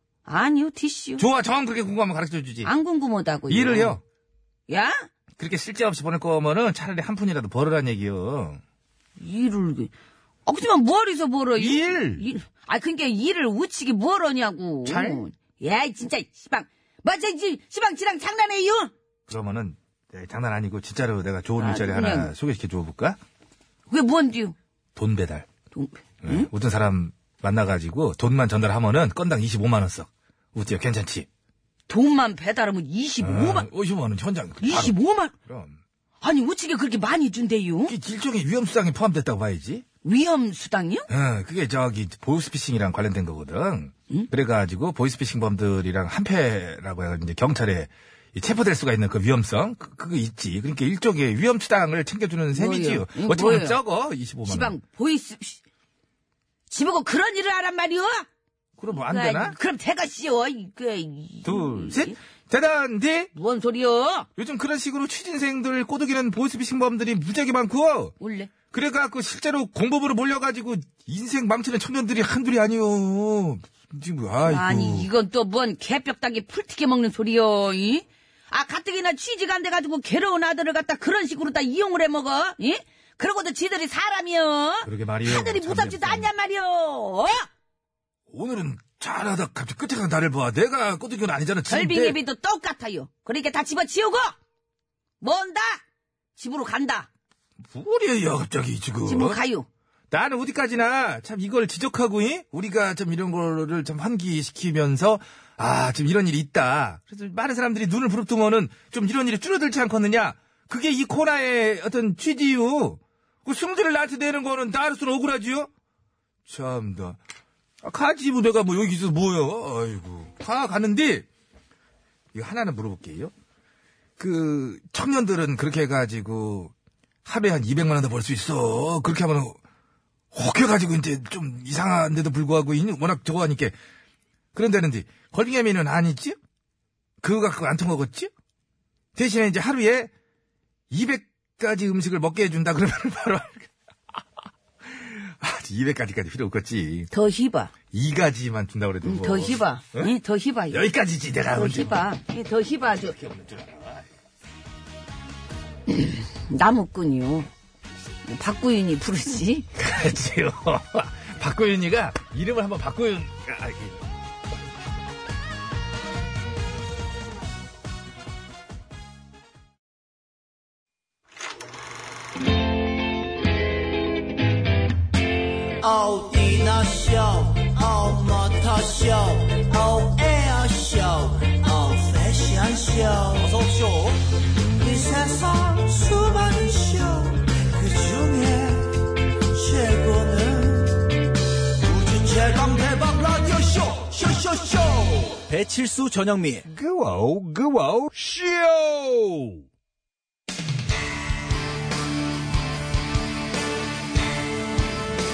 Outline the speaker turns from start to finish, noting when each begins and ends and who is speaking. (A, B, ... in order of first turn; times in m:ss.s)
0:00.2-0:01.2 A
0:01.2-0:02.7 B
0:02.6-0:04.0 A
0:03.5-0:04.0 B
0:04.7-0:05.1 A
0:05.4-0:08.6 B
0:09.2-0:09.9 A
0:10.4-0:18.9 A
0:11.6-0:12.2 B
0:14.8-0:15.2 B
0:19.3-0:23.2 B
0:21.6-0:22.3 A
0:23.9-0:24.5 A
0:24.9-0:25.5 B
0:25.7-0:26.5 A
0:26.2-0:31.3 B
0:31.9-0:33.7 A
0:33.2-0:35.8 B
0:34.6-0:35.3 A
0:36.2-0:37.9 A
0:37.8-0:39.8 B
0:40.0-0:41.1 A
0:41.1-0:54.8 B
0:52.5-0:53.8 A
0:54.5-0:55.6 A
0:56.7-0:58.2 A
0:58.8-0:59.6 B
0:58.9-1:02.2 A
1:01.4-1:03.3 B
1:03.3-1:04.3 A
1:04.4-1:08.1 B
1:08.2-1:08.5 A
1:08.7-1:15.1 B
1:14.4-1:27.5 A
1:24.8-1:26.3 B
1:28.3-1:32.2 B
1:31.7-1:34.3 A
1:35.2-1:35.8 A
1:36.4-1:37.1 A
1:37.6-1:39.4 B
1:39.0-1:39.7 A
1:40.1-1:55.7 B
1:56.5-1:57.2 B
1:57.8-2:01.2 B
2:02.3-2:03.3 B
2:04.2-2:06.7 B
2:07.2-2:09.6 B
2:10.3-2:13.7 B
2:14.5-2:16.4 B
2:17.2-2:18.3 B
2:19.1-2:20.1 B
2:20.9-2:23.7 B
2:24.8-2:27.1 B
2:27.1-2:27.7 A
2:27.9-2:30.1 B
2:29.0-2:30.8 A
2:30.7-2:32.1 B
2:31.5-2:33.2 A
2:33.0-2:34.0 B
2:35.9-2:37.5 A
2:38.2-2:39.7 A
2:39.8-2:44.0 B
2:55.8-3:11.2 C
3:11.8-3:15.5 C
3:16.6-3:18.0 B